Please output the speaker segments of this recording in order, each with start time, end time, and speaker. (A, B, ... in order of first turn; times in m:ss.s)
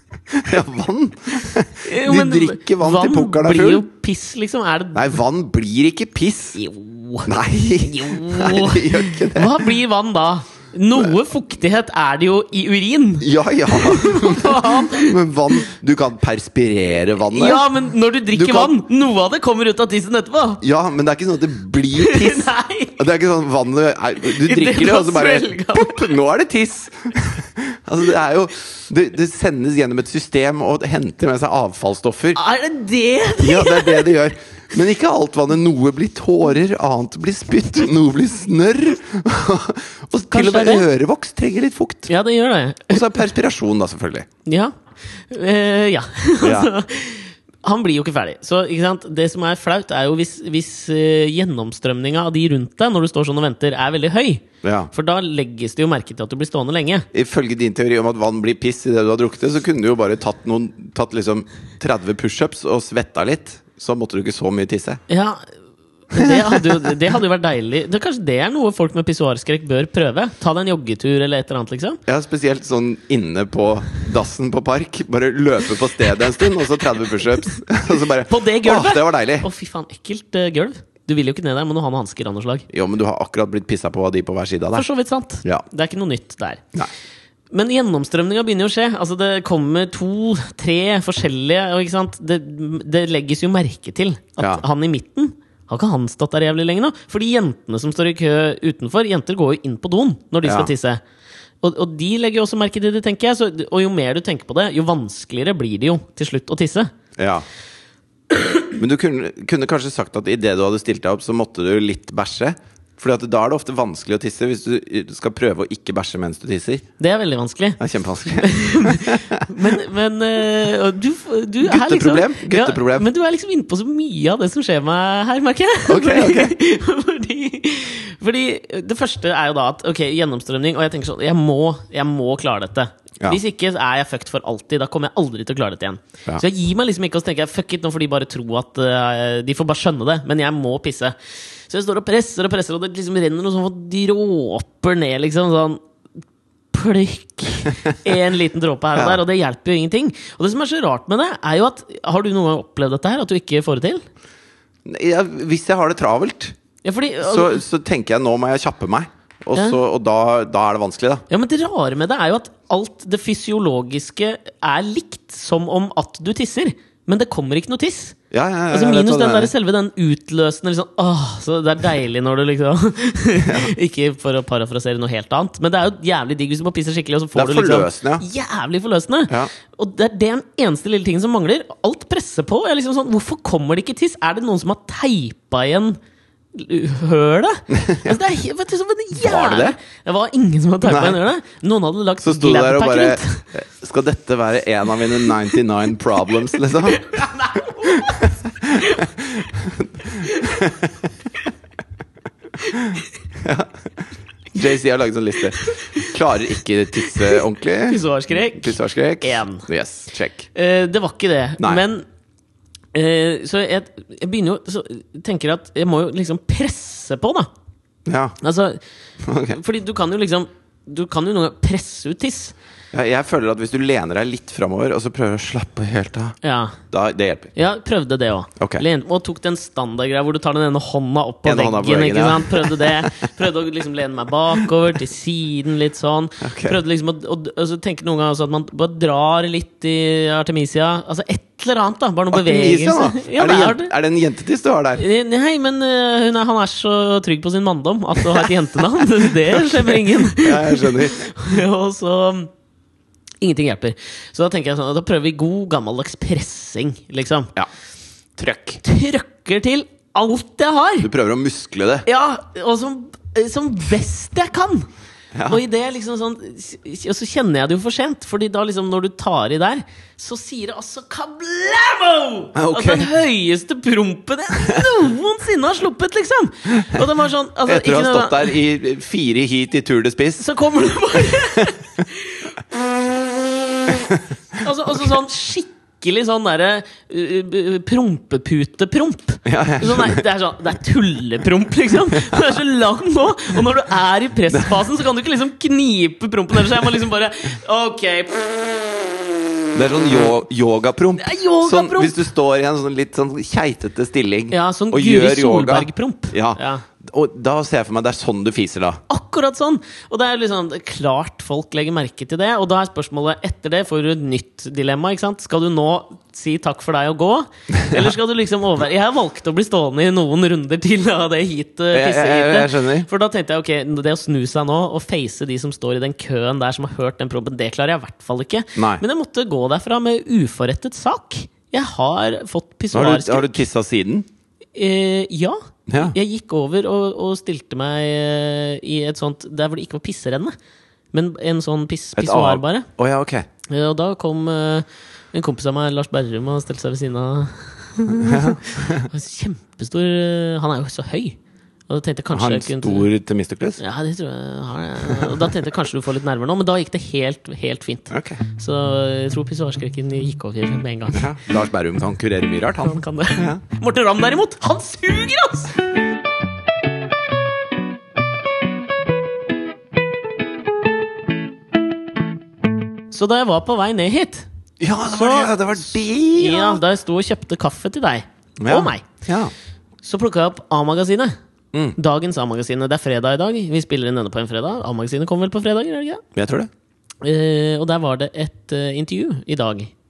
0:00.3-0:03.8 A
0:01.8-0:05.2 B
0:04.9-0:06.6 A
0:06.6-0:15.2 B
0:07.2-0:09.7 A
0:13.2-0:17.6 A
0:17.2-0:20.6 B
0:18.3-0:18.8 A
0:20.6-0:32.4 A
0:21.9-0:23.0 B
0:24.2-0:26.1 B
0:32.3-0:34.1 B
0:33.4-0:42.1 A
0:40.3-0:40.8 B
0:42.1-0:43.1 B
0:42.9-0:44.3 A
0:44.4-0:57.1 B
0:46.4-0:46.7 A
0:54.6-0:54.9 A
0:57.1-1:05.0 A
1:05.1-1:05.4 B
1:06.1-1:12.0 B
1:06.2-1:06.9 A
1:12.1-1:19.5 A
1:18.2-1:22.7 B
1:22.7-1:24.8 A
1:24.7-1:26.6 B
1:27.5-1:41.0 B
1:40.4-1:40.7 A
1:41.6-1:46.9 B
1:47.2-1:47.4 A
1:48.7-1:56.8 A
1:57.0-2:21.1 B
1:57.8-1:59.5 A
2:01.6-2:03.1 A
2:05.9-2:06.5 A
2:21.7-2:25.8 B
2:26.7-2:34.0 B
2:34.8-2:36.5 A
2:36.8-2:37.6 B
2:37.2-2:41.2 A
2:41.3-2:48.2 B
2:48.3-2:49.5 A
2:48.7-3:06.0 B
2:53.4-2:53.7 A
2:57.3-2:58.2 A
3:06.5-3:13.5 B
3:07.7-3:08.2 A
3:09.2-3:09.8 A
3:10.8-3:11.2 A
3:12.2-3:17.2 A
3:16.8-3:19.1 B
3:17.8-3:21.1 A
3:20.2-3:20.7 B
3:22.6-3:22.9 B
3:22.6-3:28.0 A
3:25.6-3:26.1 B
3:27.0-3:29.7 B
3:28.5-3:30.4 A
3:30.5-3:32.0 B
3:32.9-3:37.5 B
3:38.0-3:38.4 A
3:38.4-3:38.8 B
3:39.2-3:39.6 A
3:39.4-3:42.5 B
3:42.9-3:46.4 A
3:46.4-3:46.8 B
3:46.9-3:47.5 A
3:47.5-4:03.9 B
3:48.6-3:48.8 A
3:51.4-3:53.3 A
3:56.4-3:56.8 A
4:02.3-4:05.0 A
4:05.0-4:12.5 B
4:08.3-4:11.3 A
4:13.4-4:17.5 B
4:18.4-4:18.8 A
4:18.8-4:21.1 B
4:21.0-4:22.0 A
4:22.0-4:24.9 B
4:25.3-4:25.6 A
4:25.5-4:38.6 B
4:32.5-4:33.1 A
4:37.6-4:40.5 A
4:40.4-4:42.5 B
4:41.4-4:41.7 A
4:44.6-4:58.7 B
4:49.4-4:50.2 A
4:52.1-4:52.4 A
4:59.7-5:09.0 A
5:01.2-5:02.2 B
5:04.5-5:06.8 B
5:09.1-5:33.6 B
5:21.9-5:23.1 A
5:28.8-5:29.0 A
5:32.9-5:34.3 A
5:34.7-5:40.5 B
5:35.9-5:36.2 A
5:41.1-5:42.9 B
5:42.2-5:43.4 A
5:43.7-5:51.4 B
5:48.2-5:49.1 A
5:51.9-5:53.1 B
5:52.3-5:53.8 A
5:53.8-6:01.3 B
5:55.1-5:55.5 A
5:58.1-5:58.4 A
6:01.1-6:03.6 A
6:02.8-6:05.7 B
6:13.1-6:14.5 B
6:14.8-6:16.8 A
6:15.0-6:19.0 B
6:18.6-6:19.5 A
6:20.0-6:21.3 B
6:22.0-6:26.2 B
6:26.3-6:26.7 A
6:27.2-6:29.9 B